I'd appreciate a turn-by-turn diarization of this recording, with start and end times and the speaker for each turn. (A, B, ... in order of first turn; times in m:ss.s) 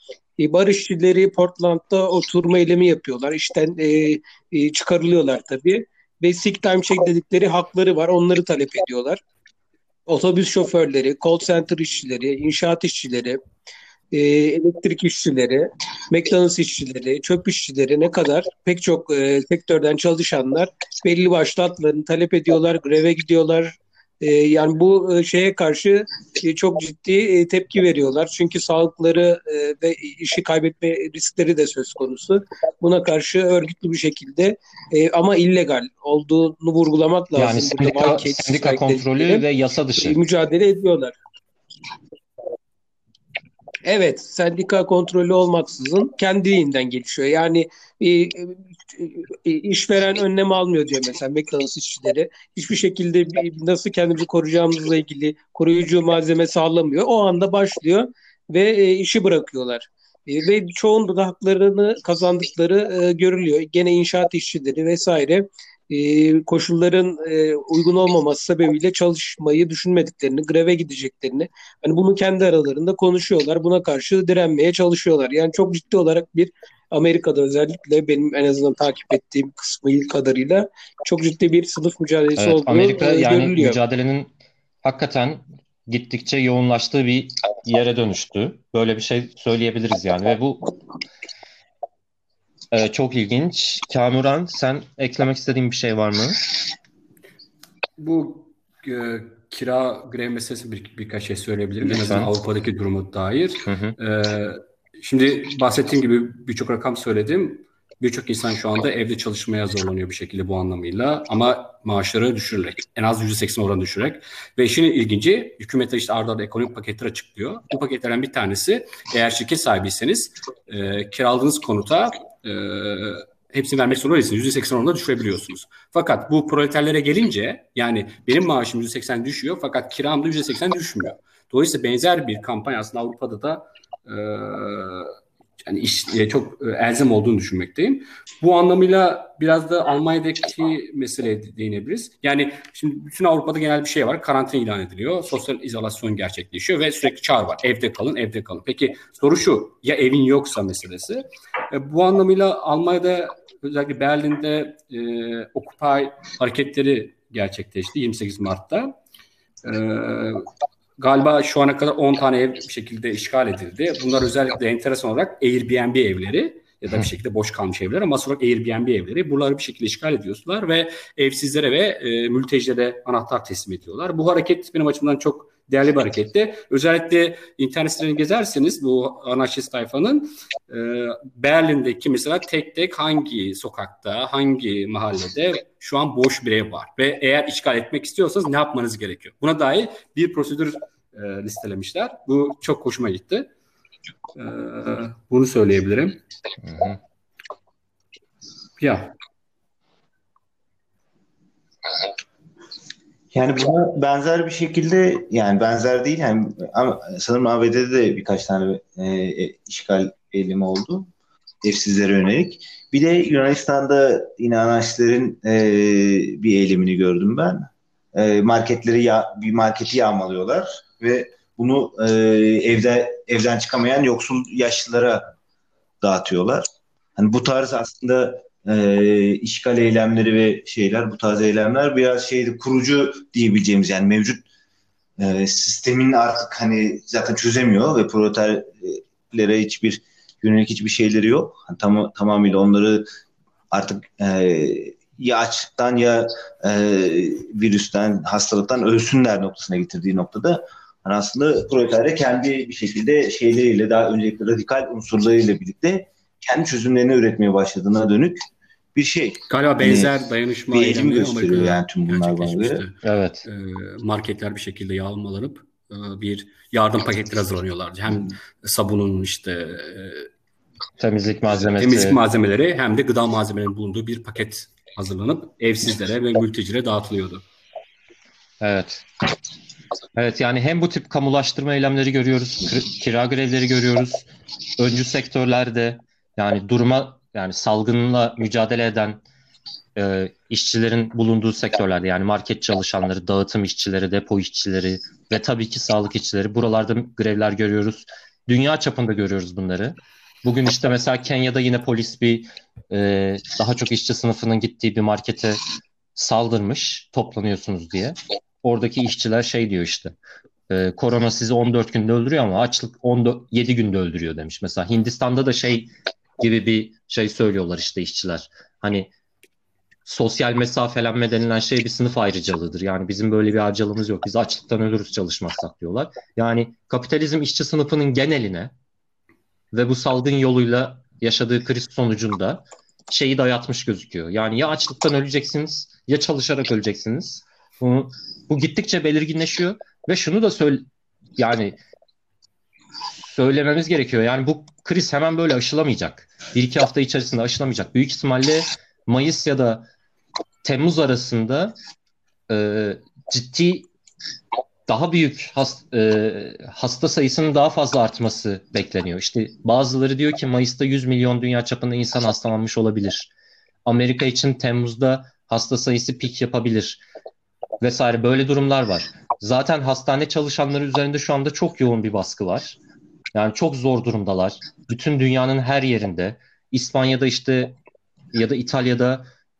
0:00.4-0:09.2 A
0:10.1-0:13.4 A
0:14.1-0:39.4 A
0:37.4-0:40.2 B
0:40.0-0:41.2 A
0:43.8-1:23.8 A
1:22.4-1:30.7 B
1:32.7-1:36.4 B
1:38.0-2:15.1 C
1:41.8-1:42.3 B
1:43.6-1:44.0 B
2:15.6-2:39.0 C
2:39.6-3:13.5 C
3:14.3-3:16.2 C
3:16.6-3:17.0 B
3:18.8-3:19.1 C
3:23.3-3:31.1 D
3:31.6-3:45.3 D
3:46.0-3:54.4 D
3:55.2-4:03.0 D
4:03.7-4:20.1 D
4:19.5-4:30.3 C
4:20.7-4:22.8 D
4:23.0-4:23.4 B
4:31.0-4:32.2 B
4:31.7-4:37.4 C
4:38.6-4:39.0 B
4:40.2-4:44.3 B
4:44.8-4:49.2 B
4:50.0-5:05.6 B
5:06.1-5:10.2 B
5:10.7-5:19.1 B
5:20.0-5:28.7 B
5:29.7-5:40.8 B
5:41.4-5:41.8 B
5:43.2-5:49.9 B
5:50.6-5:51.8 B
5:52.5-5:53.9 B
5:54.9-6:03.3 B
6:03.8-6:07.0 B
6:07.8-6:12.8 B
6:13.3-6:17.8 B
6:18.3-6:19.3 B